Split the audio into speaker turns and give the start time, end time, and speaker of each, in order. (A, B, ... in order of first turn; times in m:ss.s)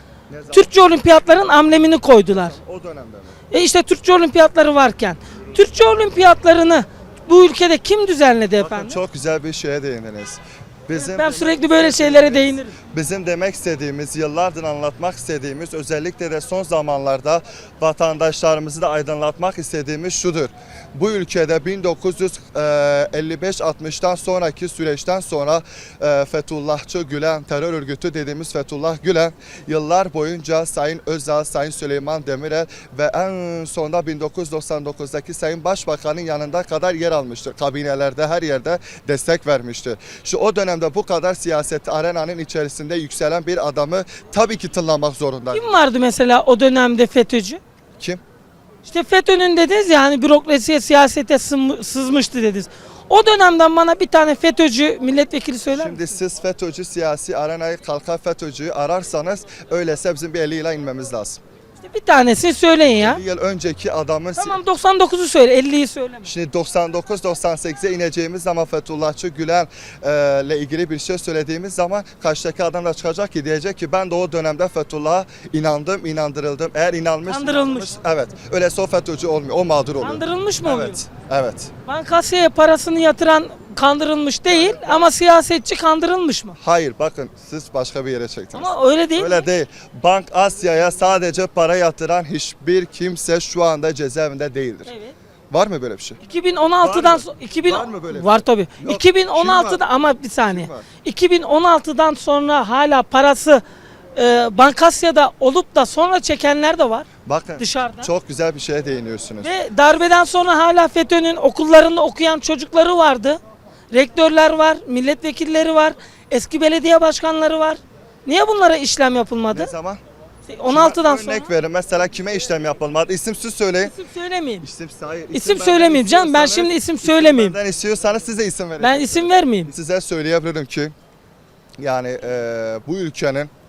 0:00.3-0:00.9 A
0:00.5-0:02.5 B
0:02.3-0:03.4 A
0:03.5-0:09.0 B
0:08.6-0:45.7 A
0:10.9-0:12.8 B
0:45.5-0:47.6 B
0:48.8-0:56.0 B
0:55.7-1:01.4 A
1:01.8-1:03.2 B
1:03.0-1:04.6 A
1:04.4-1:06.3 B
1:06.2-1:21.7 A
1:17.3-1:18.0 B
1:20.0-1:21.0 B
1:21.8-1:26.6 B
1:24.5-1:25.1 A
1:26.6-1:34.9 A
1:28.5-1:29.4 B
1:34.9-1:35.2 B
1:35.5-1:36.2 A
1:36.2-1:43.6 B
1:36.8-1:40.9 A
1:44.2-1:47.1 B
1:47.3-1:49.5 A
1:47.6-1:48.1 B
1:49.4-1:53.4 B
1:53.9-1:59.7 B
1:59.5-2:00.0 A
2:00.5-2:01.5 B
2:00.6-2:03.9 A
2:03.8-2:04.6 B
2:04.6-2:10.9 A
2:05.3-2:07.6 B
2:08.8-2:09.7 B
2:11.8-2:13.5 A